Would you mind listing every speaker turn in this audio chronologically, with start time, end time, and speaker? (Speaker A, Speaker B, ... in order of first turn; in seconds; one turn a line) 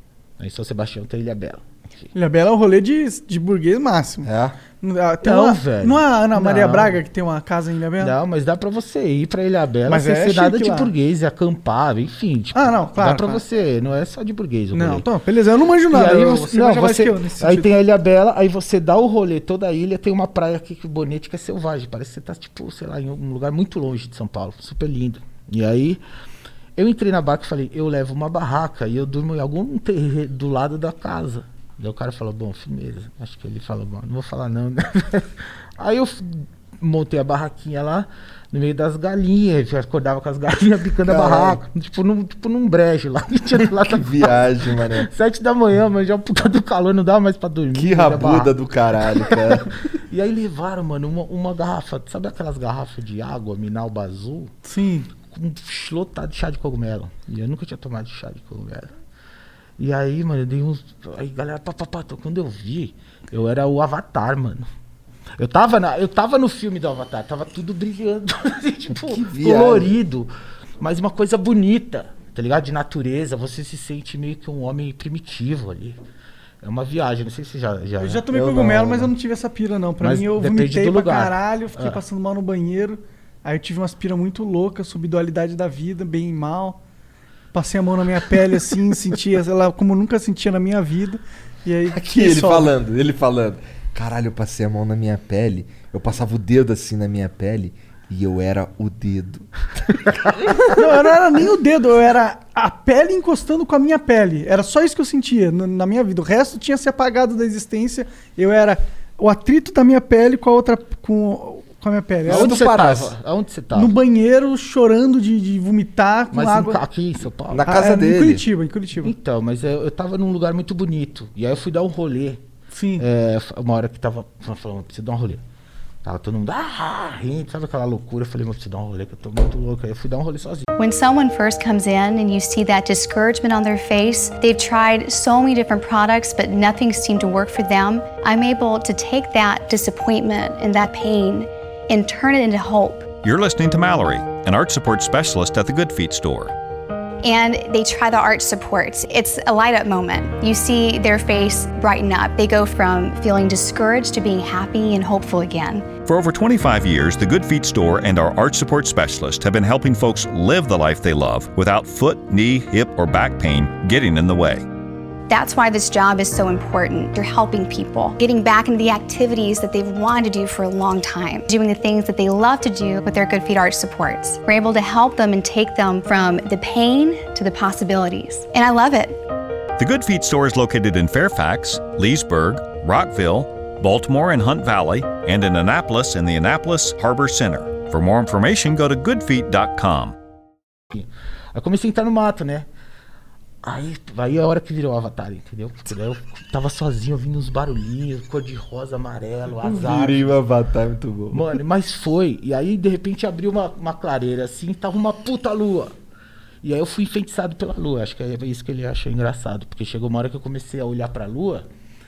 Speaker A: 0.4-2.1
Speaker B: 2.1-4.3
Speaker C: 4.2-4.5
Speaker B: 4.8-8.1
Speaker A: 5.2-7.0
Speaker A: 8.0-15.1
Speaker B: 9.9-10.9
Speaker B: 12.5-13.4
Speaker B: 14.7-17.7
Speaker A: 15.9-26.0
Speaker A: 26.8-48.5
Speaker C: 41.0-41.6
Speaker C: 43.7-45.1
Speaker C: 47.7-49.7
Speaker A: 49.2-54.5
Speaker B: 54.6-55.1
Speaker A: 55.2-58.9
Speaker A: 59.8-64.7
Speaker A: 65.4-76.0
Speaker C: 69.1-69.9
Speaker A: 76.6-78.2
Speaker B: 78.0-86.8
Speaker C: 78.3-79.1
Speaker A: 80.0-82.0
Speaker B: 87.5-92.7
Speaker C: 91.9-100.8
Speaker B: 100.6-112.5
Speaker C: 112.2-113.1
Speaker A: 112.2-113.9
Speaker B: 113.7-116.8
Speaker A: 116.3-117.7
Speaker C: 117.5-118.4
Speaker B: 117.7-119.1
Speaker A: 119.0-122.4
Speaker B: 122.7-123.0
Speaker A: 123.0-125.4
Speaker A: 126.0-130.7
Speaker D: 130.8-143.1
Speaker E: 143.2-146.5
Speaker D: 147.2-155.8
Speaker E: 156.1-164.6
Speaker D: 165.3-179.2
Speaker E: 179.8-190.1
Speaker A: 190.9-192.7
Speaker A: 193.6-200.4
Speaker C: 199.6-201.6
Speaker A: 201.3-205.9
Speaker A: 206.6-211.7